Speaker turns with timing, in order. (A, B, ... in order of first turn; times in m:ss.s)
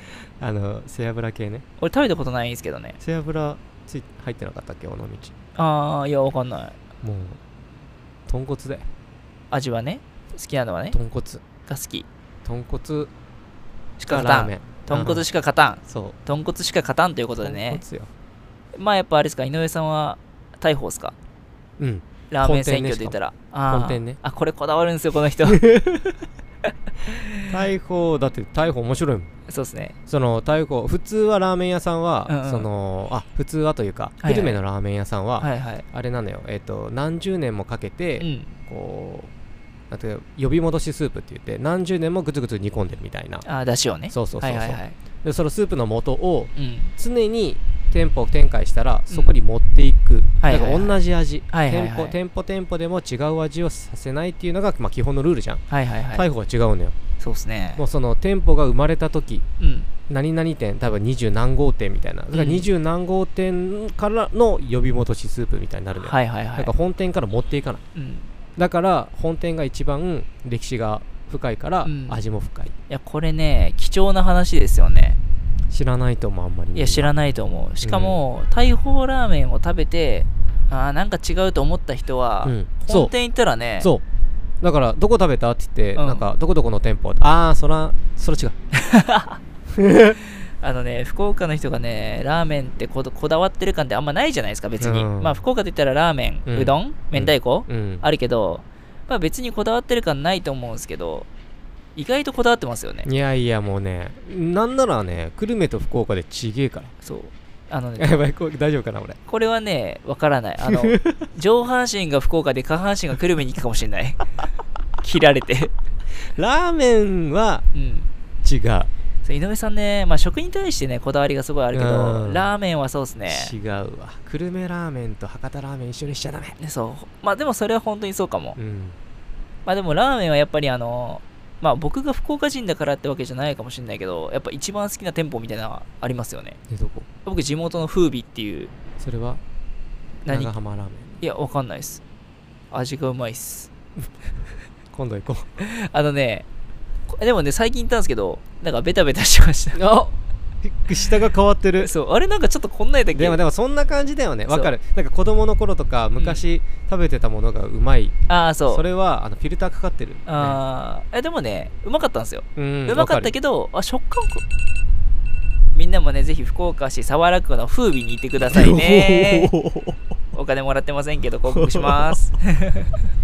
0:00.4-0:01.6 A
0:01.8-0:03.0 B
0:03.0-0:05.3 A
0:05.6-0:06.8 B
0:07.0-0:07.4 A
0:08.3-0:08.9 A
0:09.5-0:11.0 B
0:10.9-0:11.4 A
0:11.7-0:12.1 B
0:12.4-0:13.1 A
0:14.0-0:17.8 B
0:14.1-0:15.3 A
0:15.9-0:16.2 A
0:17.4-0:18.1 A
0:18.8-0:21.1 B
0:21.8-0:23.2 A
0:22.3-0:25.6 B
0:23.7-0:24.2 A
0:25.5-0:26.2 A
0:27.0-0:27.5 B
0:27.5-0:29.3 A
0:29.5-0:30.0 B
0:30.1-0:39.3 A
0:32.3-0:32.7 B
0:34.2-0:34.6 B
0:35.4-0:35.8 B
0:38.2-0:38.5 B
0:39.9-0:43.5 A
0:43.4-0:45.0 B
0:44.1-0:57.0 A
0:46.6-0:46.9 B
0:50.4-0:51.0 B
0:51.5-0:52.2 B
0:55.7-0:56.3 B
0:57.2-0:57.8 B
0:57.8-0:59.4 A
0:59.6-0:59.9 B
1:00.1-1:07.8 A
1:02.3-1:02.7 B
1:06.0-1:06.7 B
1:08.0-1:08.3 B
1:08.6-1:12.7 A
1:11.8-1:12.2 B
1:12.9-1:15.2 B
1:15.7-1:17.1 A
1:16.8-1:23.9 B
1:17.8-1:18.2 A
1:22.4-1:23.1 A
1:24.6-1:28.6 A
1:26.0-1:26.3 B
1:28.7-1:29.4 B
1:29.7-1:30.2 A
1:30.2-1:41.3 B
1:34.8-1:35.4 A
1:36.5-1:38.1 A
1:42.0-1:43.1 B
1:43.0-1:46.9 A
1:47.0-1:48.2 B
1:48.0-1:49.2 A
1:49.3-1:54.3 B
1:50.6-1:51.3 A
1:55.0-1:55.7 B
1:56.3-1:57.7 A
1:57.7-1:58.1 B
1:58.4-1:58.9 A
1:59.2-2:03.6 B
2:01.7-2:02.5 A
2:03.3-2:06.6 A
2:06.6-2:08.6 B
2:08.6-2:09.0 A
2:09.7-2:16.6 B
2:16.7-2:17.1 A
2:17.2-2:18.7 B
2:19.0-2:19.4 A
2:20.2-2:20.6 B
2:20.3-2:21.1 A
2:21.2-2:22.0 B
2:22.7-2:23.7 B
2:24.9-2:25.5 A
2:25.6-2:26.5 B
2:27.1-2:29.8 B
2:29.7-2:31.9 A
2:31.8-2:33.4 B
2:33.1-2:38.2 A
2:34.5-2:34.8 B
2:38.3-2:38.8 B
2:38.7-2:40.6 A
2:40.3-2:44.4 B
2:42.6-2:43.3 A
2:45.7-2:49.5 B
2:48.4-2:50.0 A
2:50.3-2:52.9 B
2:51.5-2:52.2 A